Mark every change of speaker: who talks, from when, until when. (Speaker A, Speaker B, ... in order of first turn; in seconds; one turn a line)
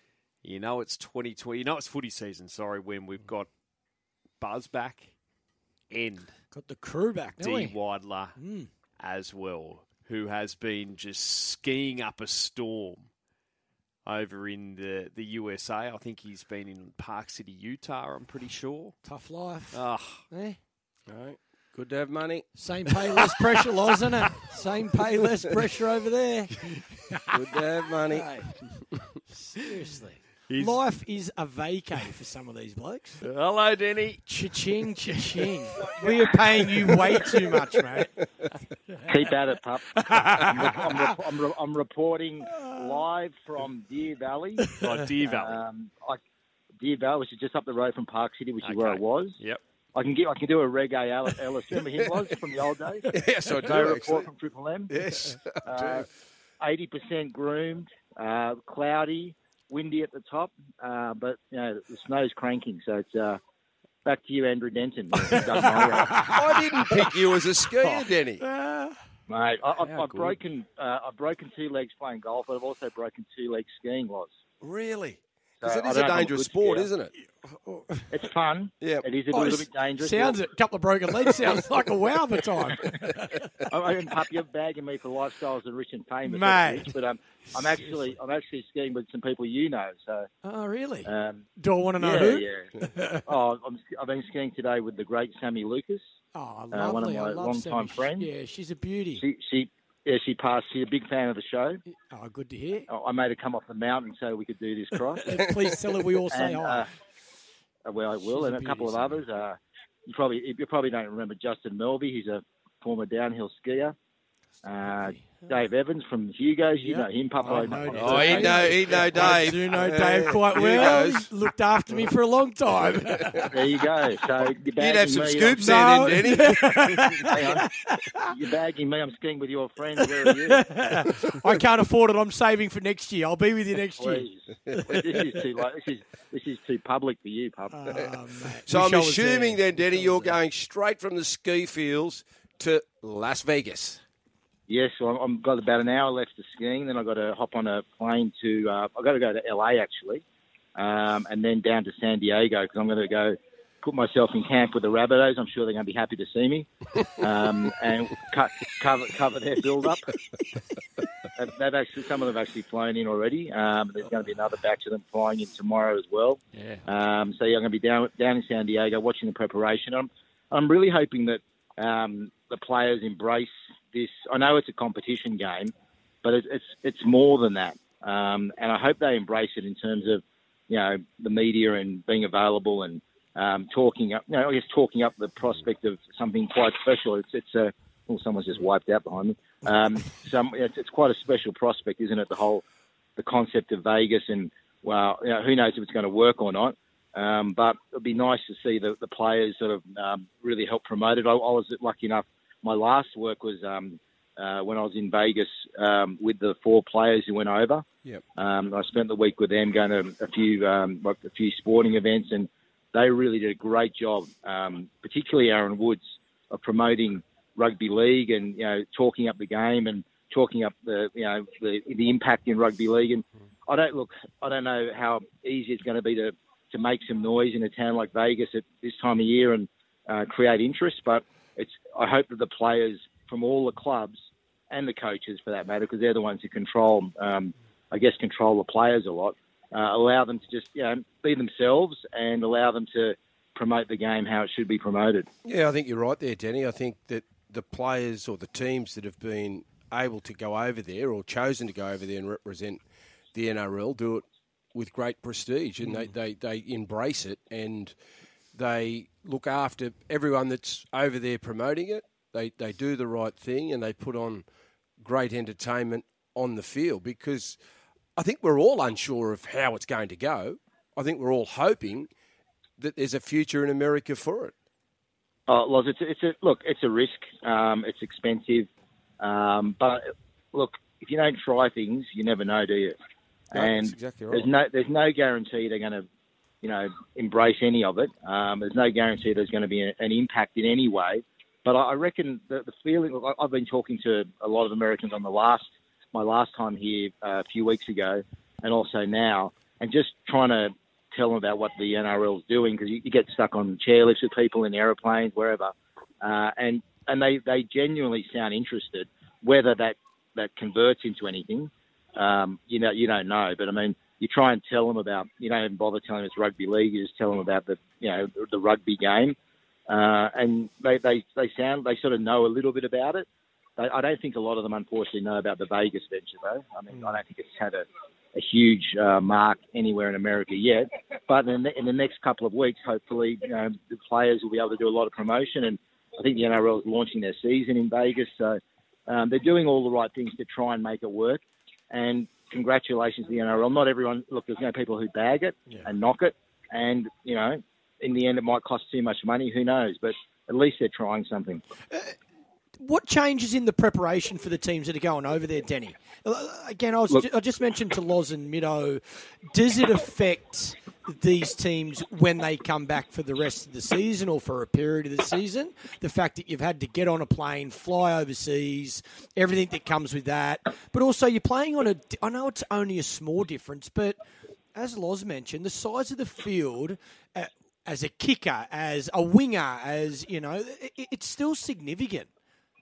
Speaker A: 0.4-3.5
Speaker A: 4.4-5.1
Speaker A: 5.9-6.3
Speaker B: 6.5-7.8
Speaker A: 7.4-8.4
Speaker B: 8.3-8.7
Speaker A: 9.0-13.1
Speaker A: 14.0-19.0
Speaker B: 19.1-20.6
Speaker A: 19.7-20.2
Speaker C: 21.1-22.5
Speaker B: 22.6-28.7
Speaker C: 27.3-28.4
Speaker C: 28.9-29.2
Speaker B: 29.3-33.2
Speaker A: 30.5-30.8
Speaker A: 33.2-34.2
Speaker B: 34.3-38.2
Speaker B: 38.9-39.2
Speaker D: 39.0-46.2
Speaker B: 40.0-41.1
Speaker B: 42.5-42.9
Speaker B: 44.6-44.9
Speaker A: 44.8-45.6
Speaker D: 46.8-49.4
Speaker A: 48.6-49.6
Speaker D: 50.0-53.1
Speaker C: 53.1-54.3
Speaker D: 53.6-54.9
Speaker C: 54.9-56.0
Speaker D: 55.6-56.1
Speaker D: 56.6-63.4
Speaker D: 64.0-66.3
Speaker B: 65.2-67.2
Speaker C: 66.2-68.4
Speaker B: 67.8-69.0
Speaker D: 69.3-74.3
Speaker C: 69.9-70.3
Speaker C: 74.6-77.1
Speaker D: 75.6-76.9
Speaker B: 77.5-78.1
Speaker D: 78.1-80.4
Speaker C: 78.8-79.1
Speaker B: 79.3-83.5
Speaker C: 82.8-83.1
Speaker D: 83.7-90.3
Speaker B: 86.3-86.9
Speaker B: 90.4-93.2
Speaker D: 91.0-91.5
Speaker D: 92.0-96.0
Speaker B: 96.3-99.2
Speaker D: 96.7-98.3
Speaker D: 99.2-101.8
Speaker B: 102.1-102.9
Speaker D: 102.9-105.4
Speaker B: 105.3-106.9
Speaker D: 106.3-106.9
Speaker D: 107.9-114.0
Speaker B: 108.3-109.2
Speaker D: 114.6-119.3
Speaker B: 115.2-115.5
Speaker B: 116.8-123.5
Speaker C: 117.8-121.3
Speaker C: 123.1-123.5
Speaker D: 123.5-125.7
Speaker C: 124.8-127.4
Speaker B: 125.6-128.3
Speaker D: 127.2-127.7
Speaker D: 128.2-130.7
Speaker B: 130.2-135.2
Speaker C: 131.0-131.3
Speaker D: 134.0-138.1
Speaker C: 134.7-135.3
Speaker B: 137.7-140.4
Speaker C: 138.6-144.0
Speaker D: 144.7-150.2
Speaker D: 150.8-160.2
Speaker D: 161.3-175.7
Speaker A: 166.5-166.8
Speaker D: 176.2-192.6
Speaker D: 193.2-207.8
Speaker D: 208.4-234.2
Speaker D: 234.7-245.3
Speaker C: 245.4-252.8
Speaker C: 253.3-257.9
Speaker C: 258.5-264.4
Speaker C: 265.0-267.6
Speaker C: 268.2-272.1
Speaker C: 272.8-274.5
Speaker D: 275.5-278.7
Speaker D: 279.2-282.9
Speaker D: 283.5-286.1
Speaker C: 283.5-284.5
Speaker D: 286.6-319.4
Speaker D: 319.9-323.2
Speaker D: 323.8-351.6
Speaker B: 326.9-327.2
Speaker B: 352.8-374.2
Speaker B: 374.8-382.3